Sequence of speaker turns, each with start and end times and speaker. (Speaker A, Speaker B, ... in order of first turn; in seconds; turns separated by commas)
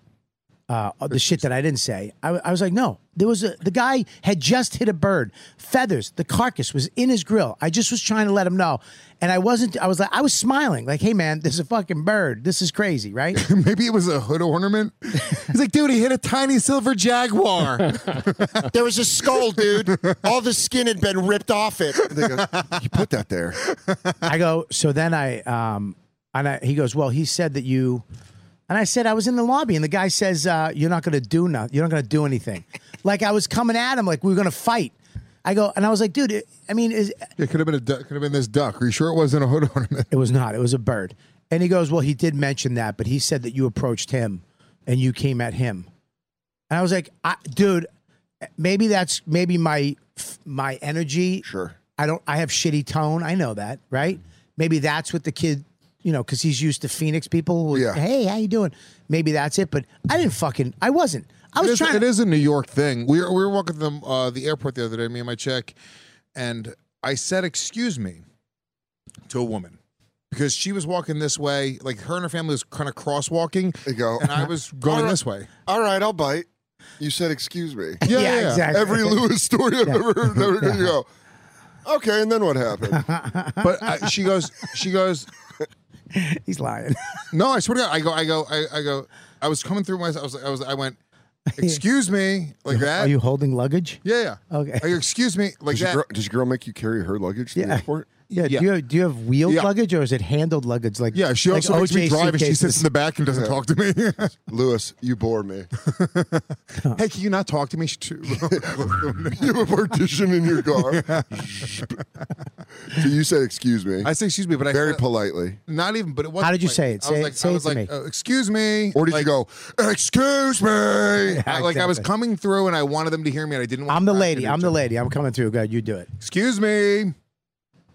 Speaker A: 0.7-13.4, Speaker B: 13.3-18.7, Speaker C: 18.7-22.1, Speaker B: 19.2-20.2, Speaker D: 22.1-23.6, Speaker B: 22.1-22.7, Speaker B: 23.7-24.2, Speaker A: 24.2-28.0, Speaker A: 28.7-37.3, Speaker B: 37.4-40.1, Speaker A: 40.1-45.9, Speaker A: 46.7-47.9, Speaker A: 48.6-51.4, Speaker D: 51.4-51.8, Speaker A: 52.0-62.0, Speaker D: 57.7-58.0, Speaker B: 61.6-65.8, Speaker B: 66.3-68.2, Speaker B: 69.3-69.8, Speaker B: 70.3-75.5, Speaker D: 73.8-76.5, Speaker D: 77.0-78.1, Speaker A: 78.0-79.2, Speaker B: 78.0-78.7, Speaker D: 78.6-81.0, Speaker A: 79.8-80.9, Speaker D: 81.8-83.1, Speaker A: 83.0-83.9, Speaker B: 83.6-85.3, Speaker A: 86.1-87.2, Speaker B: 87.3-91.0, Speaker A: 91.5-91.8, Speaker B: 91.6-93.1, Speaker A: 92.7-94.9, Speaker B: 94.0-96.0, Speaker D: 95.7-98.1, Speaker A: 97.5-102.8, Speaker B: 98.4-98.7, Speaker B: 101.1-104.3, Speaker D: 104.5-105.7, Speaker B: 105.8-109.5, Speaker D: 108.4-108.7, Speaker D: 109.3-111.9, Speaker B: 110.7-111.9, Speaker D: 112.9-114.1, Speaker B: 114.0-115.0, Speaker D: 114.7-115.6, Speaker B: 115.7-119.3, Speaker A: 116.4-117.9, Speaker D: 118.9-121.4, Speaker A: 121.2-122.1, Speaker B: 121.4-124.8, Speaker A: 123.9-126.1, Speaker B: 126.2-127.1